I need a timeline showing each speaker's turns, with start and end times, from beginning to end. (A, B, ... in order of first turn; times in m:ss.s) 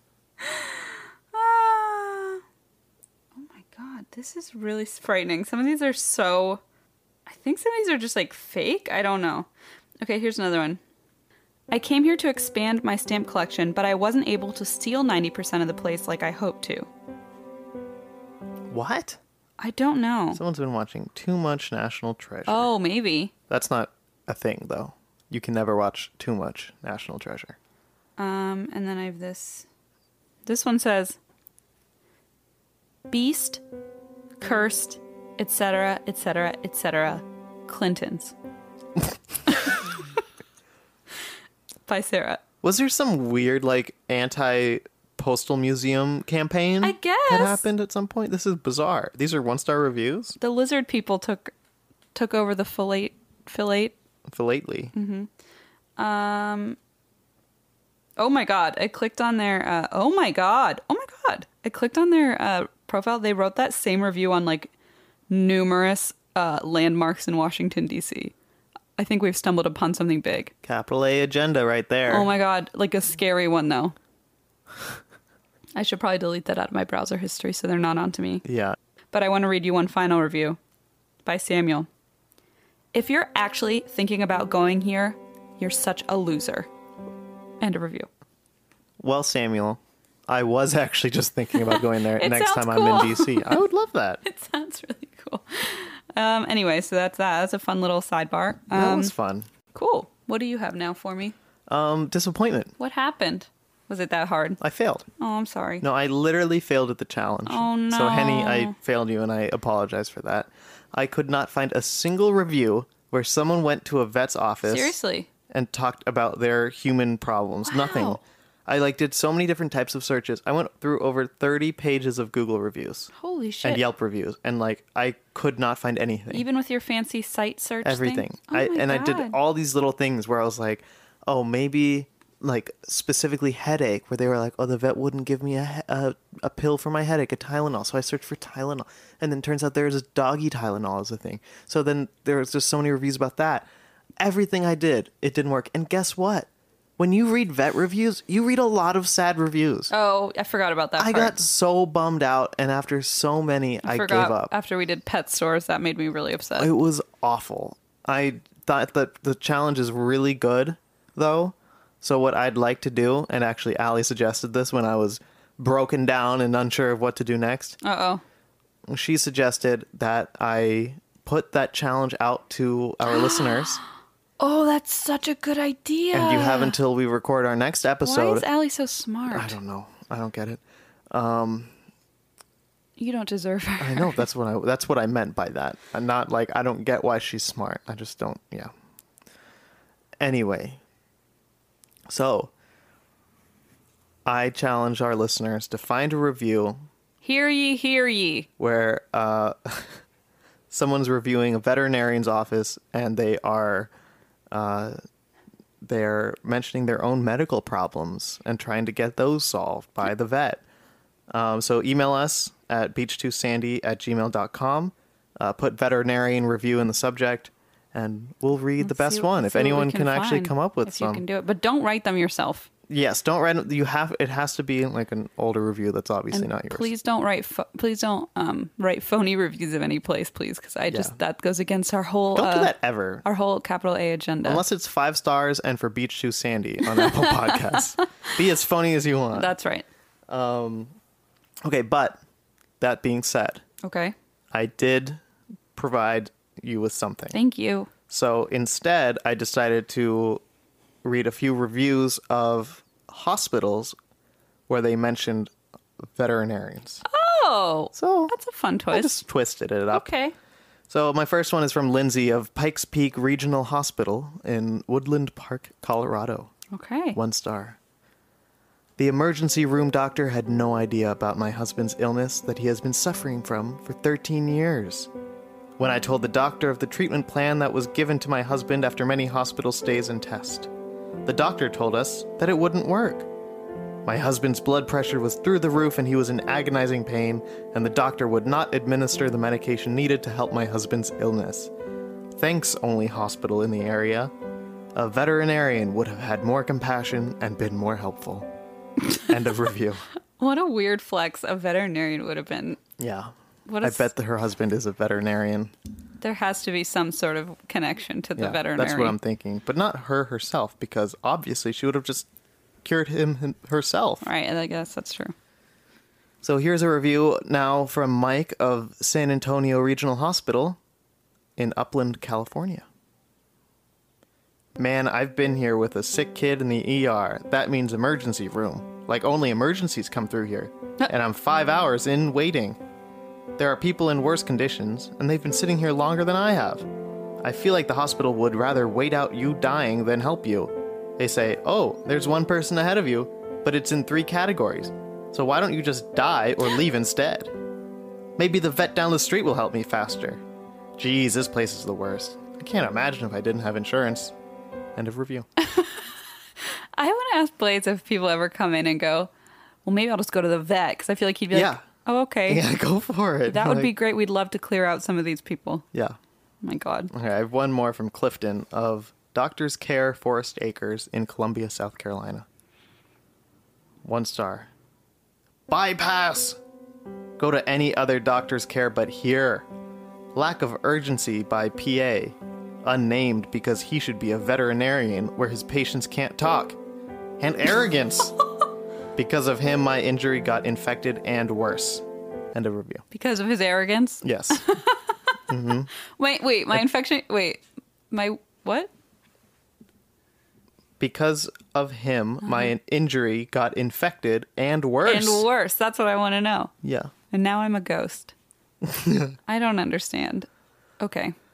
0:00.4-0:02.4 A
0:03.4-0:06.6 A
0:07.2-0:09.5 A
0:10.0-0:10.8 A
0:11.7-0:16.9 A
0:18.7-0:19.2 B
0:19.6-0:20.4 A
0:20.3-0:22.7 B
0:22.4-0:23.3 A
0:23.5-0:27.6 B
0:28.2-0:29.6 A
0:30.4-0:31.2 A
0:33.1-0:33.6 A
0:34.4-0:38.3 A
0:39.5-0:39.9 A
0:41.9-0:42.4 A
0:42.6-0:50.4 B
0:46.8-0:47.6 A
0:50.4-0:51.5 A
0:52.1-0:53.9 A
0:54.3-0:54.9 B
0:54.9-0:55.3 A
0:56.0-0:56.8 A
0:58.2-1:04.7 A
1:05.3-1:08.3 A
1:09.0-1:10.5 A
1:10.6-1:12.3 B
1:12.1-1:14.0 A
1:15.8-1:18.4 A
1:18.4-1:18.8 B
1:19.1-1:20.6 A
1:21.2-1:21.9 A
1:22.9-1:26.7 A
1:27.6-1:28.1 A
1:29.0-1:34.2 B
1:31.6-1:33.6 A
1:34.2-1:39.1 A
1:38.7-1:39.5 B
1:39.7-1:41.3 A
1:41.7-1:42.7 B
1:42.8-1:44.6 A
1:44.6-1:45.1 B
1:45.2-1:45.8 A
1:45.8-1:55.0 B
1:47.4-1:48.7 A
1:54.6-1:55.3 A
1:55.5-2:03.1 B
1:57.7-1:58.2 A
2:03.1-2:03.8 A
2:03.6-2:06.4 B
2:06.3-2:09.4 A
2:07.8-2:29.9 B
2:29.9-2:31.4 A
2:31.0-2:34.5 B
2:33.8-2:36.7 A
2:36.6-2:47.8 B
2:47.8-2:48.2 A
2:48.9-2:53.8 B
2:53.0-2:53.8 A
2:54.4-2:56.8 A
2:56.1-2:58.5 B
2:58.0-2:59.6 A
2:59.3-3:01.7 B
3:03.0-3:04.2 A
3:03.8-3:08.7 B
3:10.2-3:10.8 B
3:12.1-3:12.5 B
3:14.2-3:16.8 B
3:17.2-3:18.5 A
3:18.6-3:20.0 B
3:20.7-3:23.9 B
3:24.5-3:25.0 B
3:25.8-3:30.6 B
3:31.3-3:41.2 B
3:38.8-3:42.7 A
3:42.9-3:46.9 B
3:46.3-3:54.6 A
3:50.9-3:51.1 B
3:52.3-3:53.2 B
3:54.4-3:59.5 B
3:57.0-3:58.0 A
3:59.3-3:59.8 A
4:00.3-4:00.9 B
4:01.6-4:02.2 B
4:02.8-4:03.6 B
4:03.8-4:04.1 A
4:04.5-4:05.2 B
4:05.7-4:07.4 B
4:07.3-4:07.9 A
4:08.1-4:10.4 B
4:11.0-4:13.9 B
4:14.7-4:17.0 B
4:17.0-4:19.1 A
4:17.9-4:18.3 B
4:18.9-4:20.1 B
4:19.9-4:20.3 A
4:20.9-4:26.5 B
4:26.7-4:27.2 A
4:27.1-4:27.8 B
4:29.0-4:35.1 B
4:35.8-4:40.7 B
4:41.2-4:43.3 B
4:44.0-4:51.7 B
4:52.3-4:54.3 B
4:54.9-4:58.5 B
4:59.2-5:00.0 B
5:00.4-5:02.8 A
5:03.0-5:05.7 B
5:03.7-5:04.1 A
5:06.2-5:09.2 A
5:08.4-5:12.3 B
5:12.8-5:14.2 B
5:14.2-5:15.3 A
5:16.4-5:20.8 B
5:21.6-5:22.8 B
5:24.8-5:32.8 B
5:33.6-5:36.9 B
5:37.4-5:47.5 B
5:48.4-5:50.4 B
5:51.0-5:54.3 B
5:55.0-5:55.5 B
5:55.6-5:56.0 A
5:57.0-5:59.3 A
5:59.8-6:02.6 A
6:01.5-6:01.8 B
6:02.5-6:03.9 B
6:03.5-6:05.8 A
6:06.6-6:07.1 A
6:07.1-6:12.4 B
6:14.0-6:14.7 B
6:15.7-6:16.6 B
6:17.4-6:19.6 B
6:20.3-6:26.8 B
6:27.4-6:28.3 B
6:29.1-6:33.0 B
6:33.1-6:35.1 A
6:34.2-6:34.6 B
6:35.5-6:35.9 B
6:36.2-6:38.9 A
6:41.0-6:45.4 B
6:45.0-6:46.7 A
6:46.8-6:47.1 B
6:47.3-6:48.3 A
6:48.8-6:49.3 B
6:49.5-6:50.5 A
6:51.0-6:51.3 A